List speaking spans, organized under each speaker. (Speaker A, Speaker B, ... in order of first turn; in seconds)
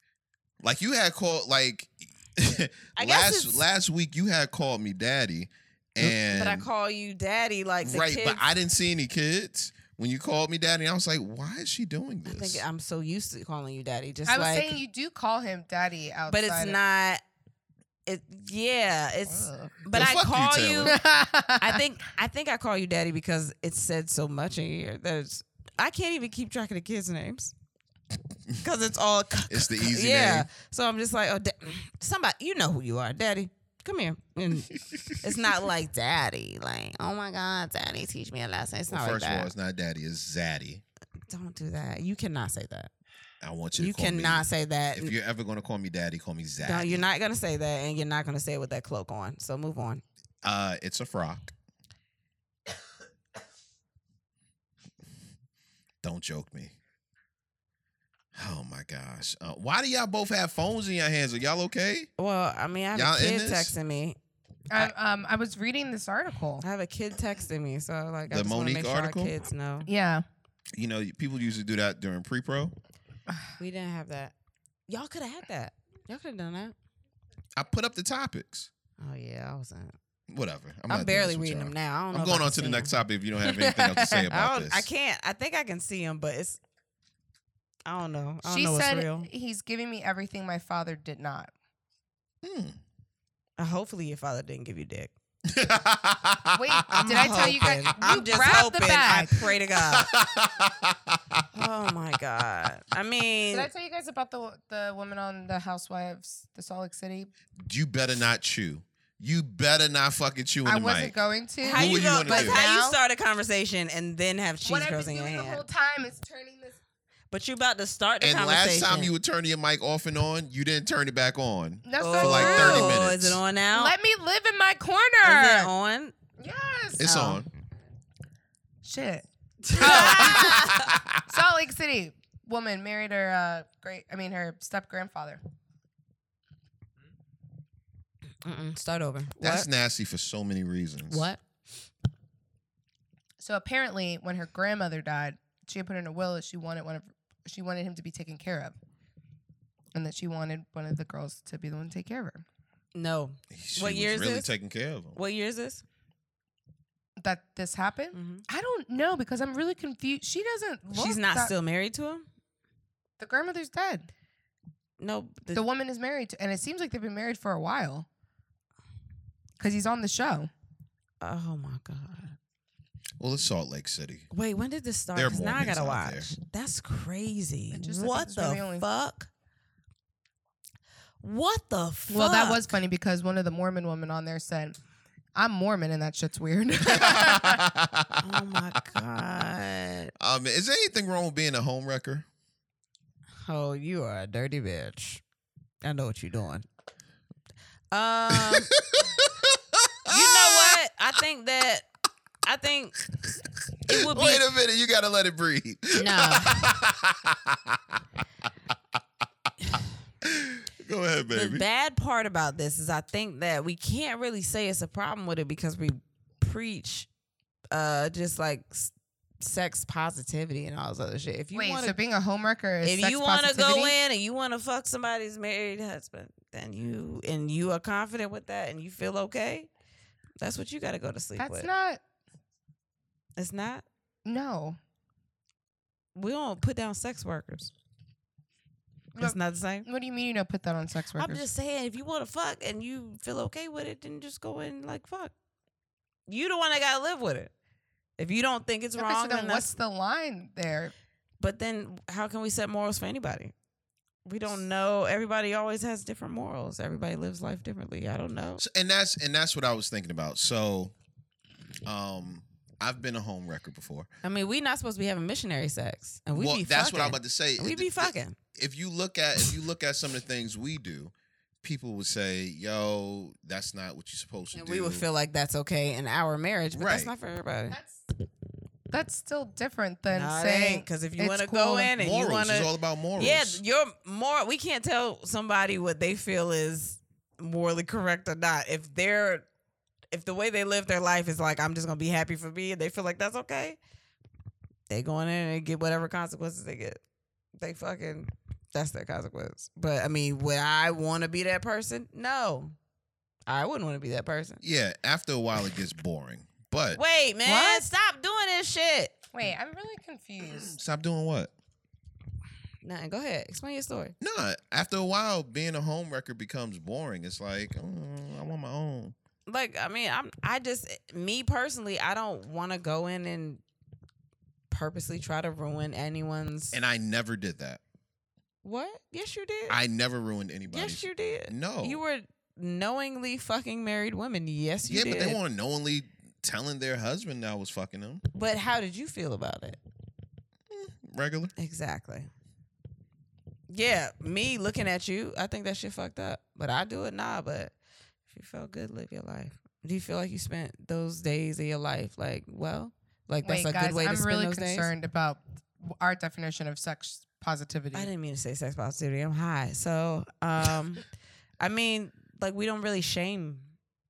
Speaker A: 0.6-6.7, 7.8-12.6, 19.9-21.0, 29.5-30.5, 34.5-35.4, 38.9-40.8, 43.4-47.0, 50.4-51.5, 56.0-56.7, 58.3-62.1, 62.9-63.7, 68.3-69.3, 70.7-72.7, 77.5-78.7, 80.3-84.9, 92.4-92.8, 95.4-97.2, 99.8-101.4, 107.6-111.1, 111.7-112.6, 118.2-123.4, 127.0-127.5, 129.9-131.2, 139.4-141.3, 153.5-155.2, 173.2-174.3, 175.1-176.3, 186.9-188.6, 190.2-192.2, 198.3-200.8, 203.9-208.0, 210.2-211.6, 258.6-260.9, 261.8-264.1, 266.3-275.0, 276.7-277.1, 281.9-283.6, 304.6-307.0, 310.4-311.5, 314.2-319.1, 326.7-327.8, 329.7-332.0, 334.8-338.2, 340.7-341.5
Speaker B: 3.0-3.6, 6.0-8.4, 12.2-14.8, 16.3-17.2, 18.1-21.0, 21.6-27.5, 28.6-39.5, 41.3-42.9, 43.8-45.1, 46.6-50.0, 62.2-64.2, 66.6-69.9, 73.6-74.3, 74.9-76.7, 79.0-80.0, 80.9-82.9, 84.3-86.6, 87.9-89.3, 93.6-95.1, 96.9-100.1, 101.5-103.7, 111.6-115.6, 117.3-119.1, 122.0-123.9, 125.2-126.1, 127.0-127.4, 129.6-130.9, 138.4-139.7, 141.1-141.4, 152.9-154.5, 155.1-155.8, 158.1-158.4, 160.9-162.3, 165.0-165.6, 171.2-172.4, 174.3-179.3, 181.2-182.7, 188.2-190.1, 193.4-195.2, 195.8-196.6, 197.9-198.7, 200.1-201.9, 202.4-203.0, 203.9-204.4, 205.9-206.7, 211.3-217.1, 217.7-221.9, 222.8-229.7, 230.4-231.7, 233.4-233.8, 236.1-237.7, 239.2-239.9, 241.2-245.3, 246.3-247.5, 248.2-249.7, 251.4-253.5, 254.2-258.6, 264.2-268.4, 274.5-277.8, 280.1-289.4, 290.1-293.8, 294.9-297.0, 297.6-302.7, 303.5-304.6, 306.9-309.1, 312.8-314.1, 319.5-323.6, 324.7-326.8, 328.6-329.8, 330.7-335.4, 338.3-339.8, 341.6-342.3, 343.7-347.7, 348.3-354.9, 357.9-361.1, 361.6-363.7
Speaker C: 14.3-16.8, 19.3-19.8, 20.8-21.8, 64.7-66.6, 69.9-70.2, 83.4-84.3, 88.4-91.5, 96.5-99.5, 103.5-107.3, 110.6-113.0, 114.6-116.8, 121.8-123.0, 123.7-125.7, 126.4-127.1, 128.8-135.4, 143.4-148.7, 149.9-152.4, 157.2-161.5, 163.2-164.1, 165.5-168.1, 169.6-170.5, 177.7-178.9, 182.1-184.8, 185.3-187.6, 221.5-223.9, 231.4-232.0, 234.2-234.8, 239.1-241.4, 249.0-250.9, 277.7-278.0, 278.9-281.9, 307.4-307.9, 309.3-310.7, 353.4-358.1